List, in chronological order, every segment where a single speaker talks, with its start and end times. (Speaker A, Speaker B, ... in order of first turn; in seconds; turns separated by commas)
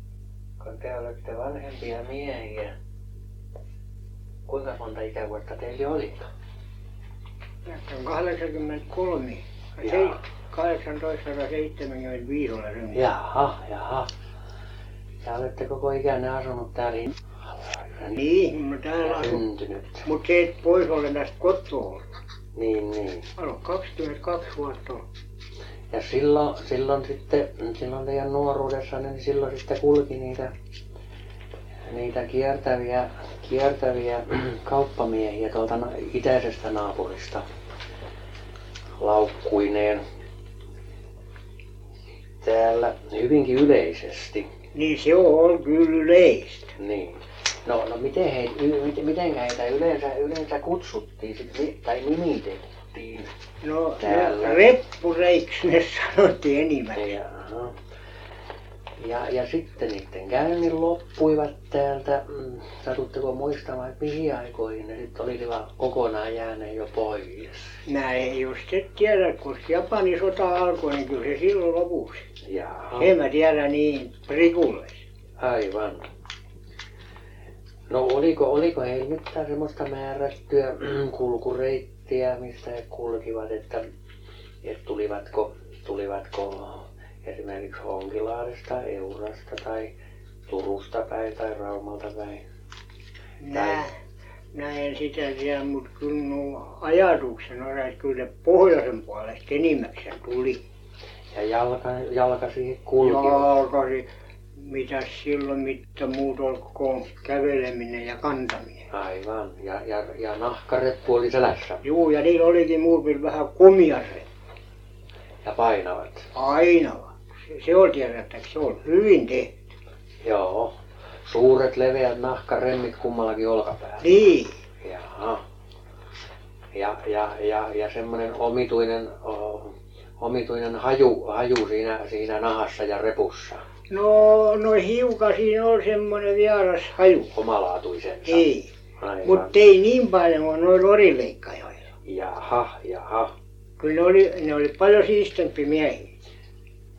Speaker A: 0.6-2.8, Speaker A: 4.5-6.3, Speaker B: 7.7-13.1, Speaker A: 9.8-10.2, Speaker A: 12.9-14.1, Speaker A: 15.2-18.2, Speaker B: 18.1-19.4, Speaker A: 19.0-20.1, Speaker B: 20.1-22.0, Speaker A: 22.6-23.3, Speaker B: 23.4-25.1, Speaker A: 25.9-30.5, Speaker A: 31.8-37.5, Speaker A: 39.0-40.0, Speaker A: 42.4-44.5, Speaker B: 44.7-46.7, Speaker A: 46.8-53.3, Speaker B: 53.6-57.1, Speaker A: 54.0-54.6, Speaker A: 57.0-57.7, Speaker A: 59.0-67.8, Speaker B: 67.8-72.3, Speaker A: 72.4-73.1, Speaker B: 72.9-75.0, Speaker A: 75.4-76.1, Speaker A: 77.9-83.8, Speaker A: 84.6-89.9, Speaker A: 90.5-92.4, Speaker B: 93.4-94.0, Speaker A: 93.5-93.8, Speaker B: 94.5-100.6, Speaker A: 101.3-103.6, Speaker B: 103.0-108.9, Speaker A: 108.9-111.8, Speaker B: 111.8-114.3, Speaker A: 115.4-116.3, Speaker B: 116.3-119.5, Speaker A: 120.2-124.2, Speaker B: 124.0-124.6, Speaker A: 124.8-125.4, Speaker A: 126.7-133.6, Speaker B: 133.9-137.3, Speaker A: 137.3-138.5, Speaker B: 138.2-138.7, Speaker A: 139.0-139.5, Speaker B: 139.2-141.9, Speaker A: 142.1-143.3, Speaker B: 143.8-146.1